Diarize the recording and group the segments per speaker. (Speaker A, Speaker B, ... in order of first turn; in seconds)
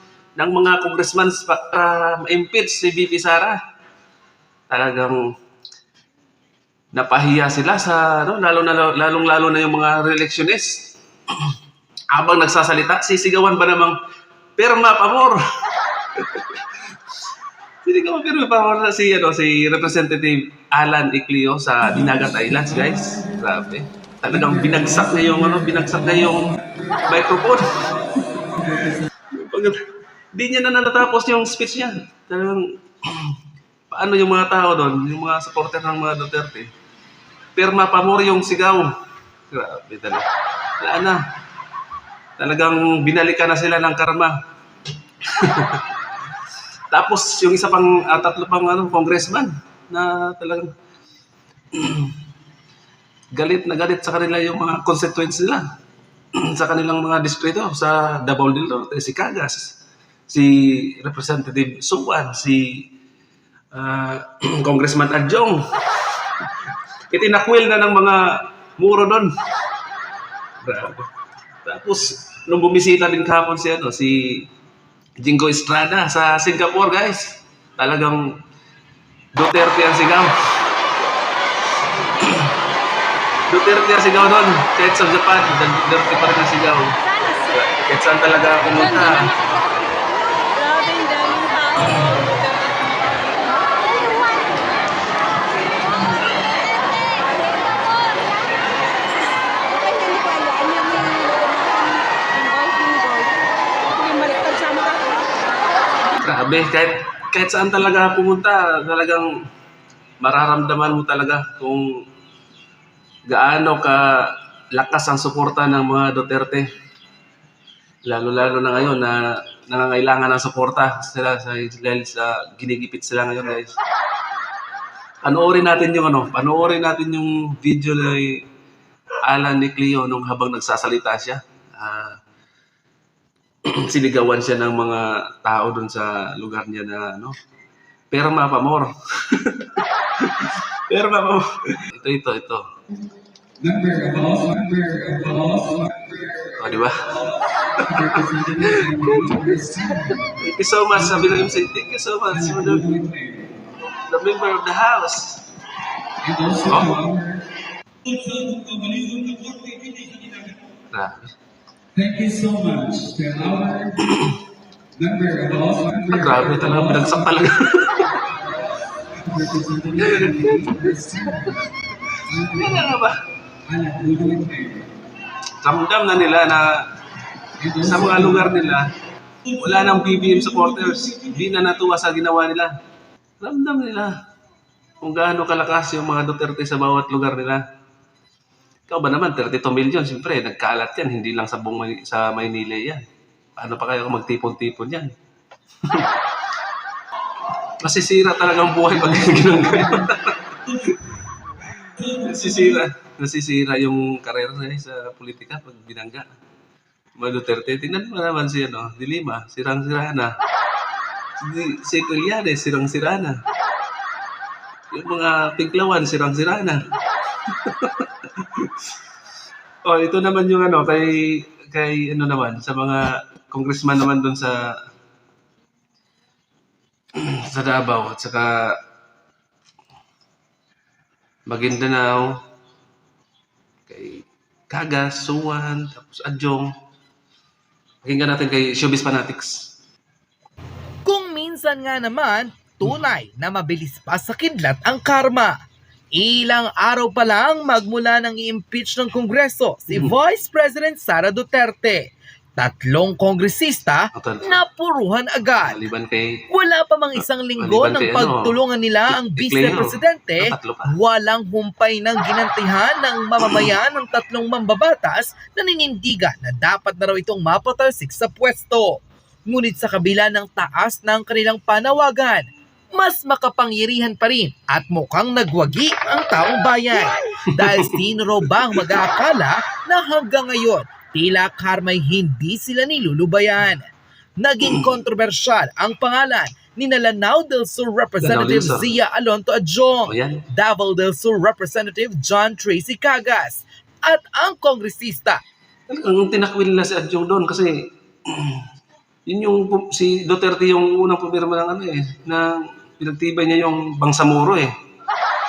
Speaker A: 0.4-3.6, 4.7-5.2, 6.9-11.5, 12.1-13.9, 14.6-15.4, 16.1-16.6, 17.8-26.5, 27.1-27.6, 29.3-29.8, 30.3-33.3, 33.9-36.7, 37.5-38.9, 39.5-40.2, 40.8-41.2, 42.4-44.4, 45.3-45.8, 46.9-50.7, 51.7-52.1, 53.3-55.6, 56.3-59.8, 60.3-62.8, 63.7-66.1, 67.1-69.3, 70.6-71.1, 71.6-74.5, 75.2-78.3, 79.3-80.3, 82.2-82.5, 83.5-89.5, 106.2-109.3, 110.2-111.9, 113.3-116.7, 118.0-123.7, 125.2-128.4, 129.2-132.2, 133.6-137.3, 138.1-142.6, 146.6-152.9, 154.0-155.4, 156.7-157.0, 160.9-161.3, 164.0-164.3, 166.1-168.2, 170.0-170.8, 172.5-173.2, 175.6-176.8, 177.8-178.9, 179.6-182.7, 183.4-184.1, 185.0-187.6, 188.9-193.0, 193.6-195.1, 195.8-196.1, 197.8-201.1, 201.8-206.3, 207.2-210.3, 211.4-213.4, 214.9-216.8, 217.5-218.9, 219.8-224.6, 227.1-228.8, 231.5-232.3, 233.9-236.7, 238.0-239.7, 254.1-254.6, 255.6-256.4, 257.2-258.5, 259.1-260.9, 277.5-278.0, 278.5-279.0, 288.2-288.9, 290.1-290.4, 295.9-298.6, 299.3-304.7
Speaker B: 87.1-87.4, 88.7-94.8, 95.5-97.8, 99.7-105.3
Speaker C: 143.7-146.1, 159.0-159.4
Speaker D: 143.9-145.9, 148.1-150.1, 152.6-153.4, 156.2-157.3, 158.1-160.3, 162.0-164.0, 165.0-166.7, 169.3-171.5, 172.3-172.8, 173.7-174.8, 177.6-178.5, 241.1-245.5, 246.1-252.0, 252.6-255.8, 256.5-268.9, 269.5-295.4